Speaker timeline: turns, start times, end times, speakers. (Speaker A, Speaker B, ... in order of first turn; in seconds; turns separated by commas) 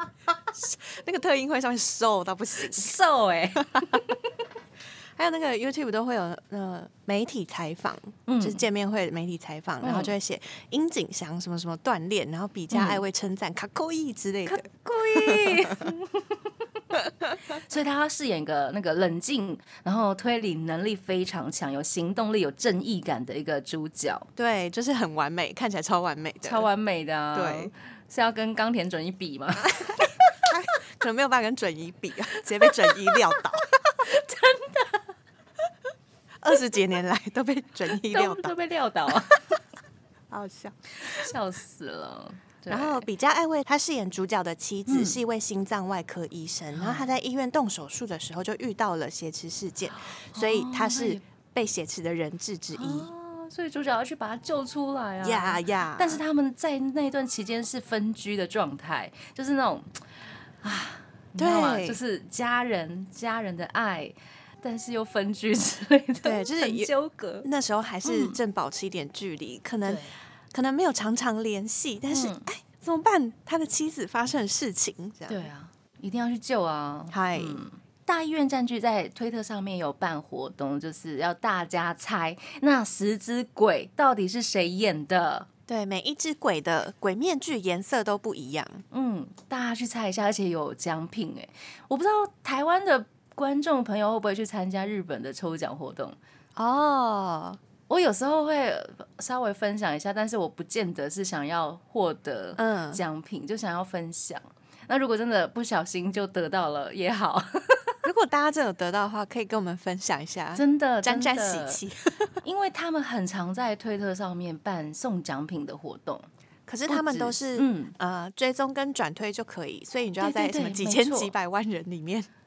Speaker A: 0.5-2.9, Speaker B: 2.6-4.2, Speaker A: 5.2-15.9, Speaker B: 8.3-8.6, Speaker B: 9.8-10.2, Speaker B: 12.7-13.0, Speaker B: 14.5-24.3, Speaker A: 24.4-26.7, Speaker B: 26.4-30.1, Speaker A: 27.3-27.7, Speaker A: 29.6-33.8, Speaker B: 32.6-33.2, Speaker B: 34.0-35.1, Speaker A: 36.4-38.5, Speaker B: 38.0-39.5, Speaker A: 40.3-41.3, Speaker B: 41.0-43.1, Speaker A: 42.7-53.1, Speaker B: 44.9-45.2, Speaker B: 46.7-47.1, Speaker B: 49.9-51.2, Speaker B: 52.7-59.9, Speaker A: 55.2-56.2, Speaker B: 60.6-67.5, Speaker A: 61.4-62.0, Speaker A: 66.2-66.9, Speaker A: 67.4-75.5, Speaker B: 68.0-68.4, Speaker B: 69.8-70.2, Speaker B: 72.1-72.5, Speaker B: 75.3-85.5, Speaker A: 77.1-77.6, Speaker A: 85.7-88.8, Speaker B: 88.9-96.2, Speaker A: 96.6-97.6, Speaker B: 97.9-108.0, Speaker A: 102.6-103.0, Speaker A: 108.0-112.3, Speaker B: 110.5-111.8, Speaker B: 112.4-116.3, Speaker A: 116.7-122.3, Speaker B: 116.9-118.0, Speaker B: 120.2-121.3